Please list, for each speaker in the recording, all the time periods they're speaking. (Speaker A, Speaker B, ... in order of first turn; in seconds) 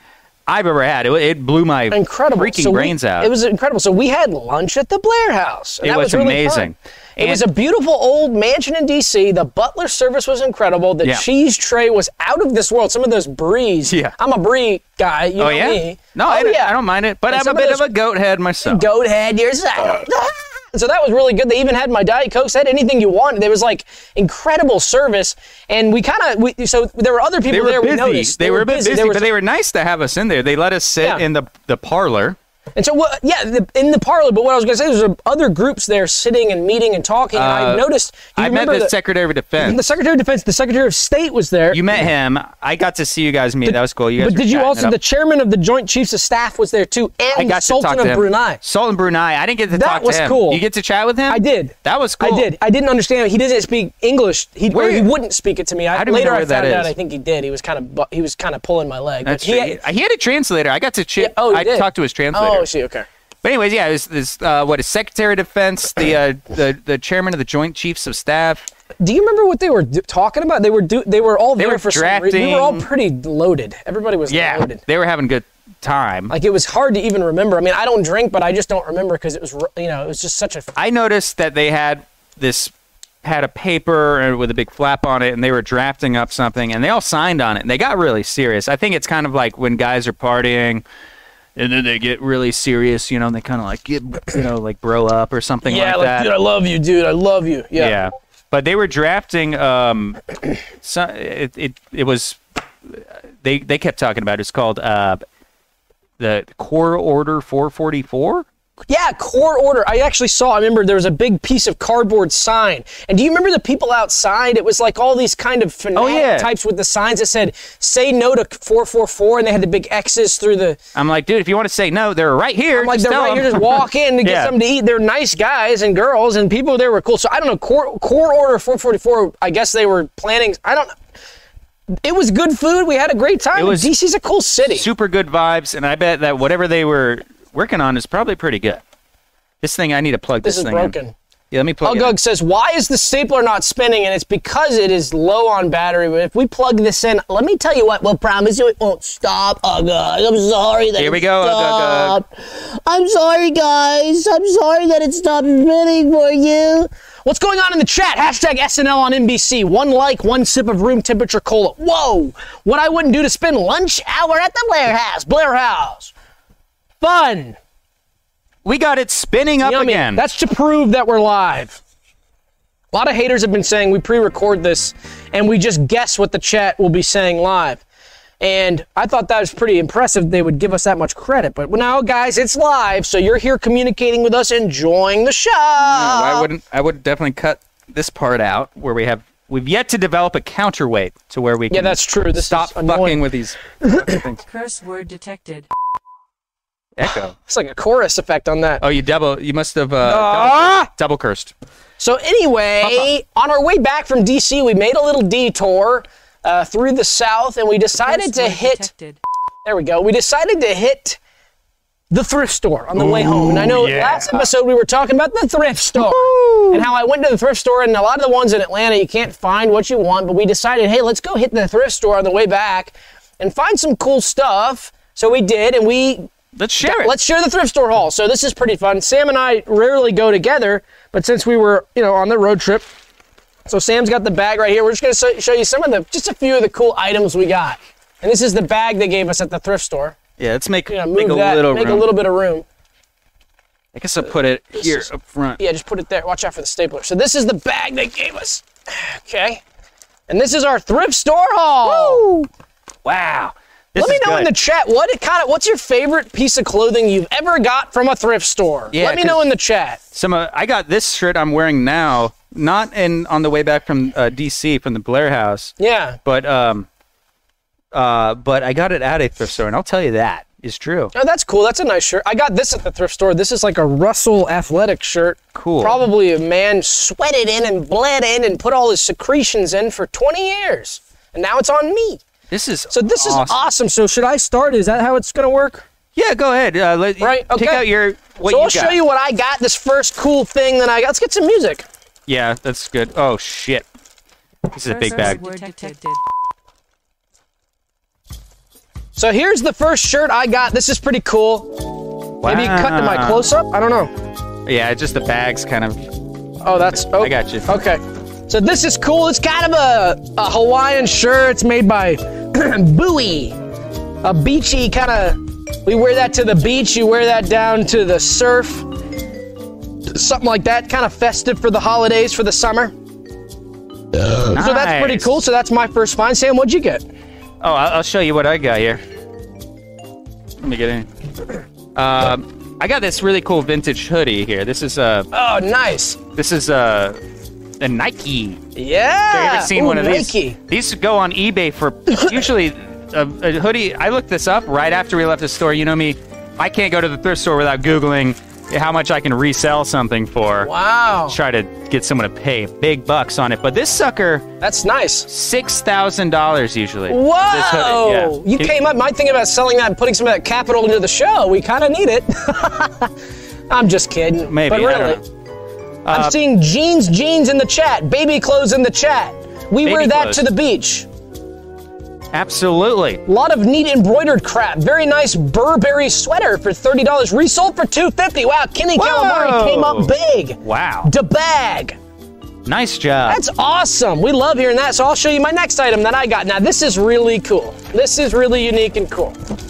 Speaker A: 0.5-3.3, 5.8-7.5, 13.9-14.1, 15.4-18.9, 27.5-32.4, 37.3-39.8, 41.7-45.0, 47.3-52.5, 54.7-55.1, 55.9-56.9, 59.2-62.7, 63.4-68.6, 71.6-72.9, 74.3-76.3, 80.8-90.8, 91.5-96.3, 97.8-100.2, 100.8-105.2, 106.2-108.5, 115.9-116.5, 120.9-124.5, 133.5-133.9, 134.7-138.8, 139.6-140.9, 141.5-142.2, 151.0-152.2, 168.6-170.2, 185.8-194.4, 197.0-197.3, 198.8-201.5, 202.8-203.1, 213.0-214.5, 215.9-216.8, 226.5-227.1, 240.4-242.1, 243.9-245.6, 251.8-252.4, 253.0-254.5, 258.9-259.5, 260.1-265.7, 266.2-266.9, 267.9-271.1, 275.5-276.0, 282.5-283.6, 286.1-289.0, 292.3-293.8, 294.7-295.4, 302.4-303.5, 304.6-306.1, 307.1-307.7, 324.5-325.3, 327.6-329.0, 330.6-331.1, 331.9-335.3, 336.3-337.2, 337.8-338.6, 339.3-350.7, 351.3-354.5, 355.3-358.7, 364.5-365.2, 366.0-366.4, 369.8-370.5, 372.3-373.2, 378.9-380.1, 380.6-381.1, 382.6-383.4
Speaker B: 1.9-16.8, 17.3-17.9, 18.6-29.3, 32.8-38.9, 39.6-41.8, 43.6-48.6, 49.7-50.6, 51.3-59.8, 61.2-63.0, 69.0-74.8, 76.3-80.7, 95.6-98.0, 108.9-120.8, 122.8-130.9, 132.0-134.9, 140.4-141.1, 141.8-166.1, 167.0-167.6, 169.6-171.8, 172.9-177.8, 178.4-186.5, 191.7-193.2, 193.8-194.2, 197.4-198.8, 200.0-200.9, 202.0-208.9, 209.6-211.2, 212.1-226.3, 226.8-232.8, 233.7-240.2, 240.9-242.6, 244.8-245.1, 245.6-249.6, 250.3-252.3, 254.0-260.0, 265.8-266.2, 271.1-282.2, 282.9-285.8, 287.2-287.9, 288.4-291.9, 299.1-304.1, 306.6-313.6, 314.2-318.9, 320.1-322.9, 324.5-327.0, 335.3-336.2, 338.8-340.6, 350.6-351.4, 354.6-355.3, 357.1-363.1, 363.7-365.2, 366.1-371.1, 373.2-382.0, 383.3-389.4
Speaker C: 194.4-195.7, 208.0-209.2, 294.8-296.2